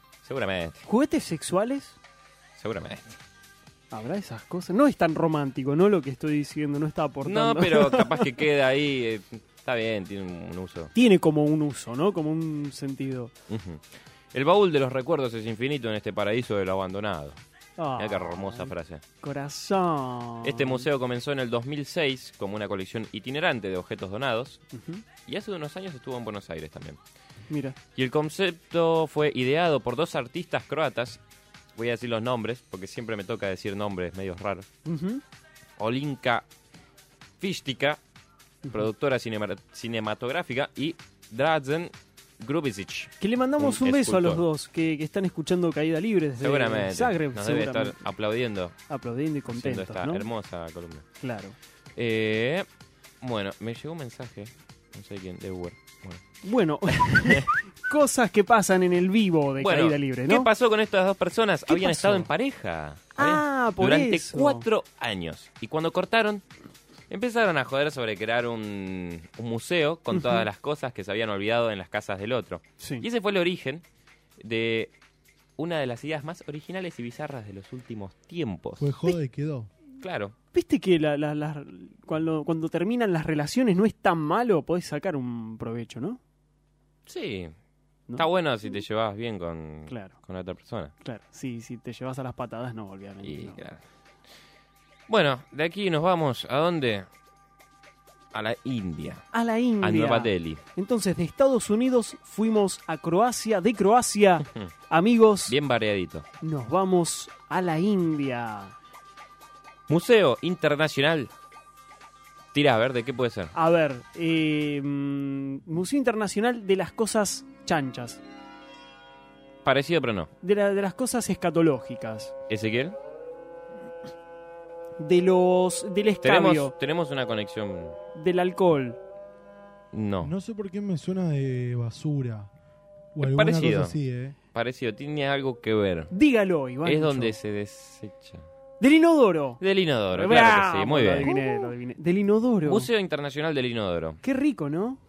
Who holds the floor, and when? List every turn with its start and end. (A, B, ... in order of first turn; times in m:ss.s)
0:00.2-0:00.8 A
0:00.9-0:02.0 B
0:02.6-0:03.2 A
0:03.9-0:08.2 B
0:07.2-0:10.9 A
0:10.9-0:13.3 B
0:13.5-0:13.8 A
0:14.3-0:17.4 A
0:17.8-0:20.8 B
0:18.0-0:19.0 A
0:20.4-0:24.6 A
0:24.7-0:25.0 B
0:25.2-0:27.0 A
0:27.5-0:27.8 B
0:27.9-0:31.2 A
0:31.8-0:34.6 A
0:34.8-0:35.2 B
0:35.8-0:36.5 A
0:37.4-0:38.0 A
0:38.7-0:44.4 A
0:43.2-0:48.0 B
0:46.4-0:48.8 A
0:48.9-0:50.3 B
0:49.5-0:51.0 A
0:51.2-0:51.6 B
0:52.0-0:52.7 A
0:53.2-0:56.2 A
0:56.4-1:00.5 B
0:56.9-0:57.4 A
0:59.6-1:06.4 A
1:01.7-1:02.3 B
1:03.2-1:04.6 B
1:07.1-1:13.8 A
1:10.1-1:10.4 B
1:12.8-1:13.0 B
1:14.4-1:14.9 A
1:15.6-1:18.9 A
1:18.8-1:19.7 C
1:20.0-1:20.3 A
1:20.5-1:26.2 B
1:27.1-1:27.5 A
1:28.2-1:30.9 A
1:29.9-1:30.1 B
1:31.0-1:33.6 B
1:33.2-1:33.8 A
1:35.1-1:37.1 A
1:38.3-1:39.2 A
1:39.3-1:45.6 B
1:39.8-1:40.6 A
1:45.4-1:46.2 A
1:46.4-1:48.7 B
1:49.9-1:51.3 A
1:52.5-1:53.5 A
1:53.5-1:58.2 B
1:59.6-2:00.3 A
2:00.4-2:02.3 B
2:02.5-2:03.0 A
2:05.0-2:06.7 B
2:06.2-2:08.0 A
2:08.1-2:09.0 B
2:09.9-2:10.3 A
2:10.2-2:12.5 C
2:13.1-2:14.4 C
2:13.2-2:14.0 A
2:14.5-2:16.1 A
2:16.1-2:17.4 B
2:16.8-2:18.4 A
2:18.8-2:19.6 B
2:19.6-2:21.7 A
2:20.1-2:22.9 B
2:22.6-2:24.2 A
2:24.2-2:25.0 B